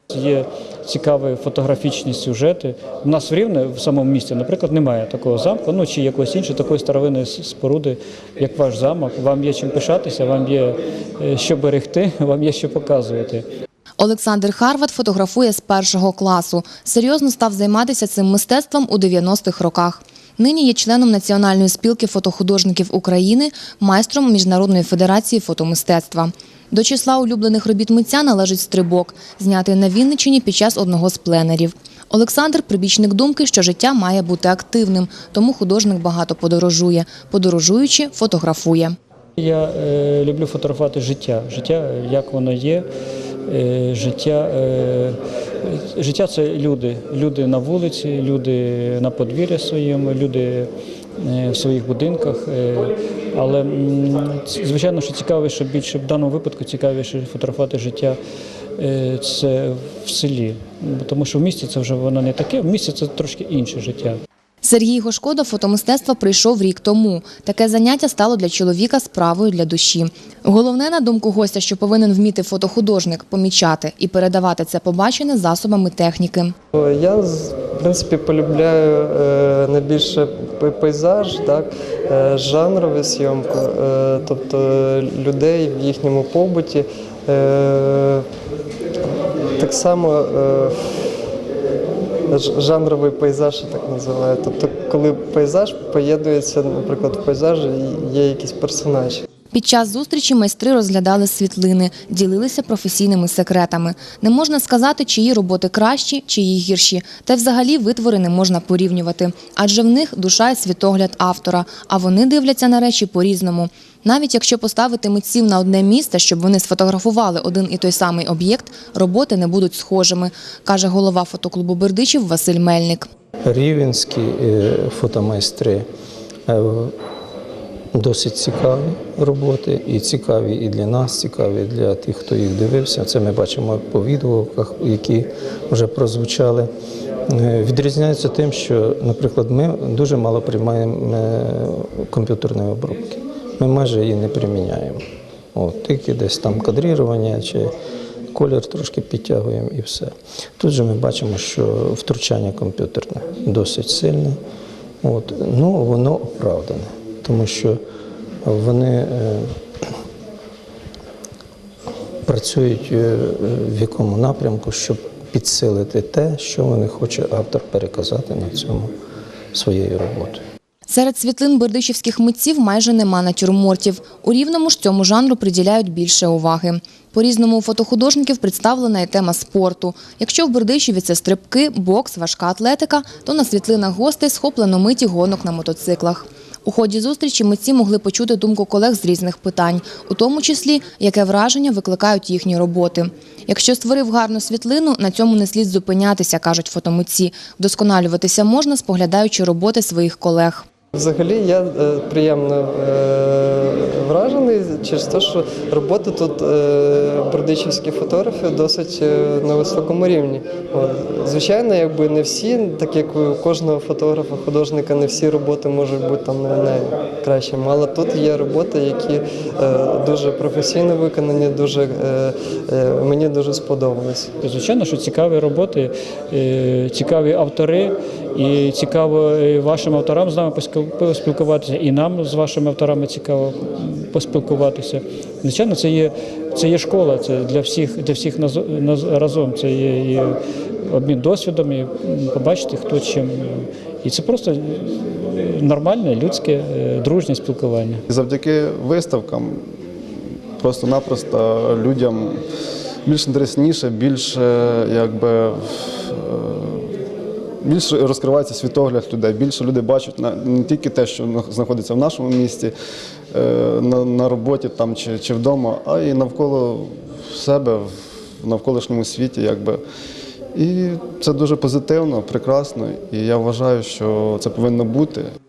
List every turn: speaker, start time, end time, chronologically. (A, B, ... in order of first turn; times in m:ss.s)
0:00.1-0:13.4 A
0:14.0-0:38.9 B
0:39.4-0:42.8 A
0:43.5-0:58.2 A
0:58.8-1:04.2 A
1:04.6-1:16.5 B
1:16.7-1:28.2 C
1:29.6-1:30.8 C
1:32.3-1:39.2 C
1:39.5-2:03.1 B
2:03.4-2:05.8 D
2:06.5-2:07.0 D
2:07.9-2:16.7 D
2:17.3-2:25.0 D
2:25.5-2:27.7 D
2:28.3-2:34.4 D
2:35.0-2:37.8 D
2:38.4-2:39.6 D
2:42.2-2:48.9 D
2:49.5-2:50.4 D
2:50.9-3:20.6 B
3:20.9-3:44.3 C
3:44.4-4:08.0 A
4:08.1-4:09.6 E
4:10.6-4:12.4 E
4:13.0-4:16.9 E
4:17.6-4:22.7 E
4:23.3-4:27.9 E
4:28.4-4:29.8 E
4:30.5-4:35.3 E